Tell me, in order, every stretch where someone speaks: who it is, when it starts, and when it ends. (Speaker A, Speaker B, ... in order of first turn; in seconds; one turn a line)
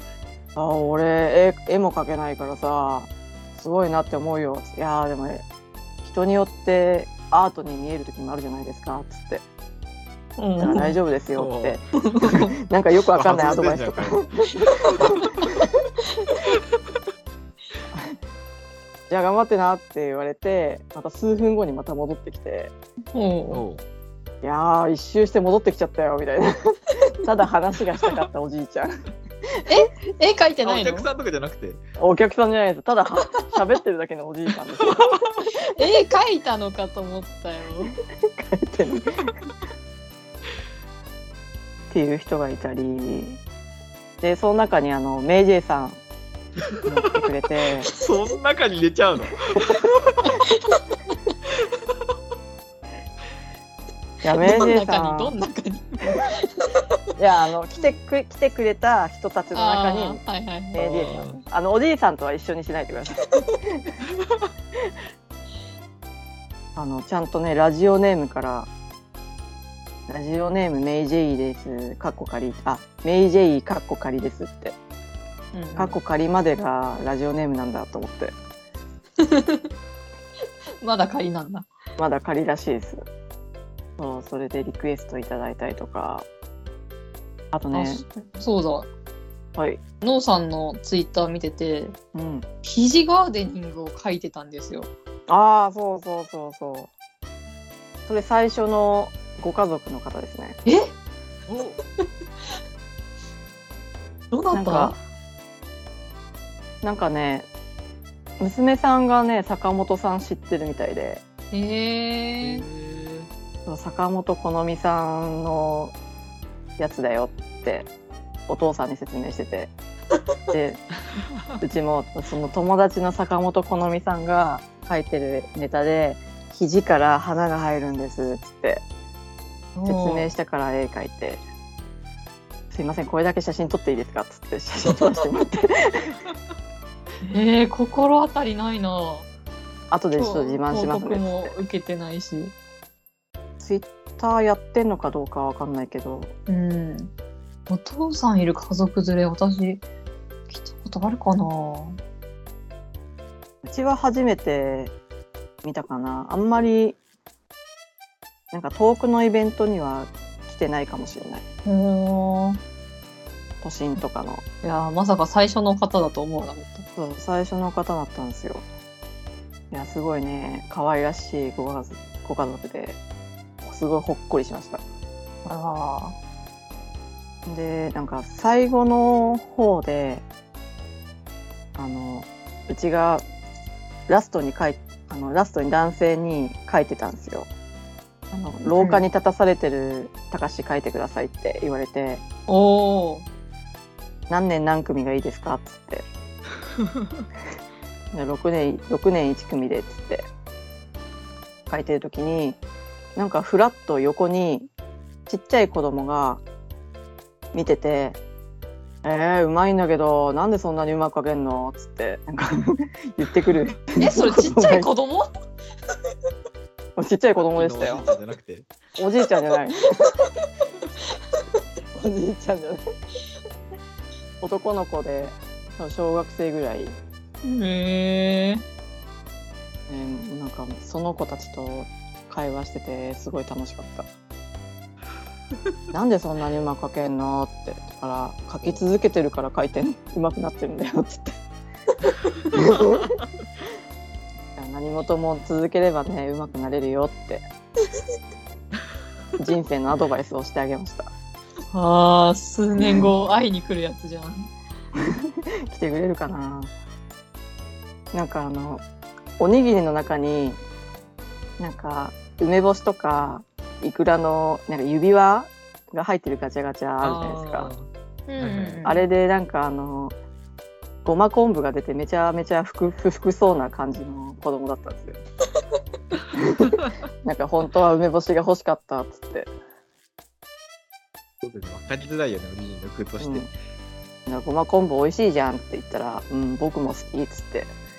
Speaker A: 0.6-5.4
Speaker A: 6.0-9.4
Speaker B: 10.4-11.0
Speaker A: 10.6-15.7
Speaker C: 11.3-11.8
Speaker B: 12.0-12.5
Speaker C: 13.1-14.2
Speaker A: 19.1-22.7
Speaker B: 23.1-23.6
Speaker C: 23.5-23.8
Speaker A: 24.4-28.9
Speaker B: 29.7-31.1
Speaker C: 30.6-31.8
Speaker A: 32.0-35.2
Speaker B: 35.6-38.0
Speaker A: 38.3-39.3
Speaker A: 41.9-43.4
Speaker A: 44.2-46.0
Speaker A: 46.8-47.9
Speaker C: 47.9-50.4
Speaker B: 50.3-50.8
Speaker A: 54.2-55.3
Speaker B: 54.4-56.8
Speaker A: 57.1-60.2
Speaker B: 59.5-60.9
Speaker A: 60.7-63.8
Speaker C: 60.8-61.4
Speaker A: 66.8-68.7
Speaker A: 70.1-74.8
Speaker B: 75.5-76.0
Speaker A: 75.8-78.3
Speaker B: 79.2-79.7
Speaker B: 80.8-81.7
Speaker A: 82.0-83.0
Speaker A: 84.0-86.3
Speaker A: 87.5-88.0
Speaker B: 87.7-88.9
Speaker B: 90.0-92.0
Speaker A: 92.1-92.5
Speaker B: 92.6-94.9
Speaker A: 95.3-96.9
Speaker A: 98.1-100.6
Speaker B: 100.7-100.9
Speaker C: 101.5-101.8
Speaker B: 104.3-105.0
Speaker A: 104.5-105.0
Speaker A: 106.8-107.5
Speaker A: 108.4-111.2
Speaker B: 111.5-112.6
Speaker C: 112.4-113.3
Speaker A: 113.7-115.9
Speaker A: 116.8-117.9
Speaker A: 118.5-119.7
Speaker A: 120.5-120.8
Speaker A: 121.6-128.8
Speaker B: 129.8-130.3
Speaker A: 129.8-131.4
Speaker A: 132.7-136.1
Speaker B: 137.2-139.3
Speaker A: 139.9-141.5
Speaker B: 140.1-142.5
Speaker A: 143.6-146.3
Speaker B: 146.5-147.1
Speaker B: 147.7-149.8
Speaker B: 150.5-152.0
Speaker A: 153.6-154.9
Speaker A: 155.6-157.0
Speaker A: 158.5-161.4
Speaker B: 161.7-162.6
Speaker A: 163.6-164.4
Speaker B: 164.6-166.8
Speaker A: 167.0-168.6
Speaker A: 169.7-173.0
Speaker A: 173.6-174.8
Speaker B: 175.4-176.2
Speaker A: 177.4-180.2
Speaker A: 181.7-183.2
Speaker A: 184.1-187.5
Speaker A: 188.3-192.2
Speaker B: 188.8-189.0
Speaker B: 192.5-193.2
Speaker A: 194.3-196.1
Speaker A: 198.1-200.3
Speaker A: 201.7-202.6
Speaker A: 203.2-204.7
Speaker A: 205.3-206.4
Speaker A: 207.5-208.2
Speaker A: 209.0-214.9
Speaker B: 214.0-215.3
Speaker A: 216.9-218.1
Speaker C: 217.5-218.7
Speaker A: 219.0-220.2
Speaker A: 221.9-222.8
Speaker A: 224.4-227.0
Speaker B: 227.4-228.6
Speaker A: 229.9-234.1
Speaker A: 235.9-241.4
Speaker A: 242.5-243.2
Speaker A: 244.6-247.4
Speaker A: 249.4-251.1
Speaker B: 251.7-254.5
Speaker A: 252.8-253.1
Speaker A: 255.7-256.7
Speaker A: 258.1-258.8
Speaker A: 259.4-260.6
Speaker A: 261.6-267.7
Speaker C: 267.0-268.8
Speaker B: 268.3-269.0
Speaker A: 268.8-270.1
Speaker A: 271.0-275.2
Speaker A: 276.4-279.5
Speaker C: 281.4-283.5
Speaker A: 283.2-283.5
Speaker A: 284.3-287.7